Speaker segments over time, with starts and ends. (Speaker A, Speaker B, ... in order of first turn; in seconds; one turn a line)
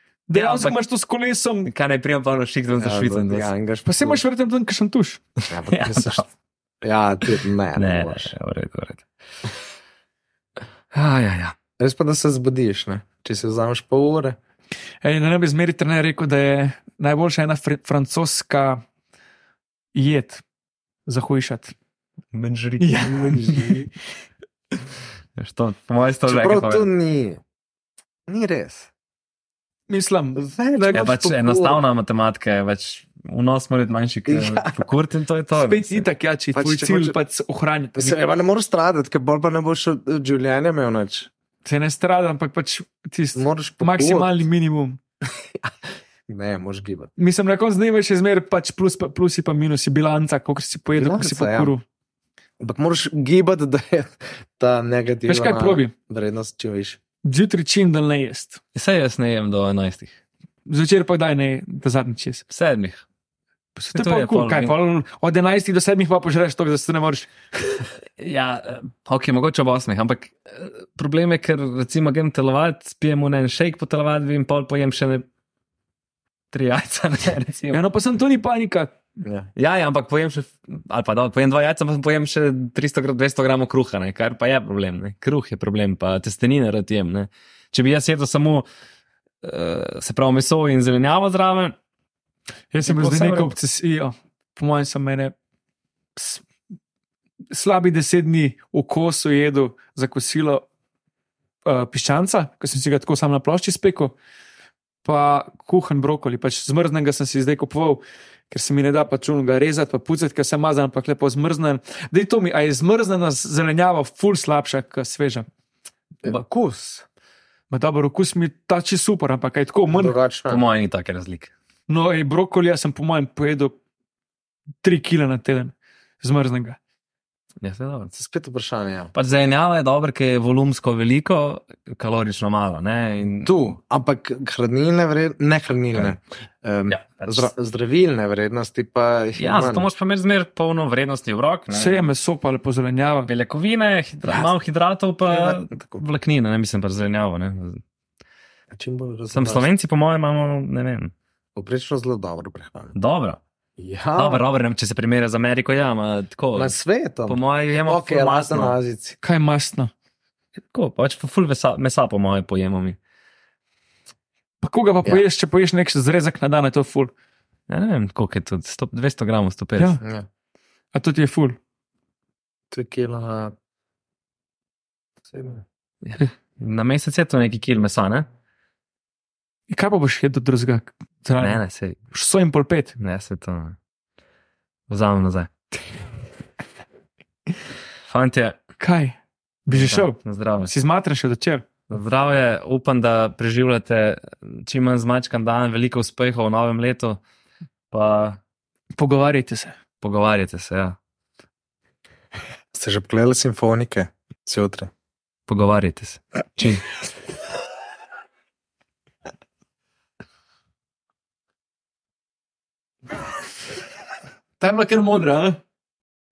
Speaker A: 0.3-1.7
Speaker B: 0.3-0.8
Speaker B: 1.6-3.5
Speaker C: 2.8-4.2
Speaker A: 3.8-5.2
Speaker C: 5.5-6.2
Speaker B: 5.7-6.2
Speaker C: 6.8-8.3
Speaker B: 7.8-9.0
Speaker B: 10.9-11.5
Speaker C: 11.8-14.4
Speaker A: 15.0-18.8
Speaker A: 19.9-20.4
Speaker A: 21.1-21.7
Speaker B: 22.3-23.8
Speaker A: 22.8-23.9
Speaker B: 25.4-26.9
Speaker C: 26.2-27.4
Speaker C: 28.3-28.9
Speaker A: 29.9-31.2
Speaker C: 30.4-31.8
Speaker B: 30.9-36.0
Speaker C: 34.3-34.7
Speaker A: 35.5-38.1
Speaker C: 36.5-37.2
Speaker C: 38.0-41.3
Speaker A: 41.6-45.0
Speaker C: 43.4-44.4
Speaker C: 46.3-47.1
Speaker A: 47.2-51.8
Speaker C: 50.9-51.7
Speaker C: 52.6-57.0
Speaker A: 55.2-55.9
Speaker A: 57.2-58.6
Speaker B: 58.7-60.1
Speaker A: 60.6-62.4
Speaker B: 62.5-63.0
Speaker A: 63.8-67.8
Speaker B: 63.9-64.7
Speaker B: 68.2-75.2
Speaker B: 76.5-77.8
Speaker A: 77.7-78.9
Speaker B: 79.5-88.7
Speaker B: 89.4-91.7
Speaker A: 92.7-95.3
Speaker B: 92.8-93.5
Speaker A: 96.2-96.4
Speaker A: 97.5-100.6
Speaker A: 101.7-104.1
Speaker A: 105.0-115.5
Speaker C: 116.2-117.0
Speaker A: 117.7-120.2
Speaker C: 119.9-120.6
Speaker B: 120.5-121.5
Speaker A: 121.9-123.7
Speaker A: 124.8-126.8
Speaker B: 127.6-128.1
Speaker C: 128.1-129.1
Speaker B: 129.1-133.5
Speaker C: 133.4-139.9
Speaker B: 136.9-137.5
Speaker B: 139.4-142.0
Speaker A: 141.7-143.3
Speaker B: 143.3-147.8
Speaker C: 144.3-144.5
Speaker C: 145.3-146.0
Speaker C: 148.7-149.7
Speaker B: 149.3-151.1
Speaker C: 151.6-152.9
Speaker B: 152.9-153.4
Speaker C: 153.8-154.4
Speaker B: 154.2-156.7
Speaker C: 156.5-159.2
Speaker B: 157.3-158.8
Speaker A: 159.2-159.9
Speaker B: 160.7-163.0
Speaker A: 164.6-167.1
Speaker B: 167.7-170.0
Speaker C: 170.0-170.3
Speaker A: 170.9-171.6
Speaker C: 172.7-173.5
Speaker C: 175.3-175.6
Speaker B: 176.0-178.3
Speaker A: 179.7-181.6
Speaker B: 181.4-182.0
Speaker A: 182.1-182.9
Speaker B: 183.0-183.8
Speaker B: 184.9-185.5
Speaker B: 188.1-188.6
Speaker A: 188.8-191.7
Speaker B: 189.7-190.7
Speaker B: 191.9-197.2
Speaker B: 197.9-198.4
Speaker A: 199.0-199.7
Speaker B: 200.0-200.9
Speaker C: 202.7-204.9
Speaker B: 205.5-206.8
Speaker A: 214.6-215.6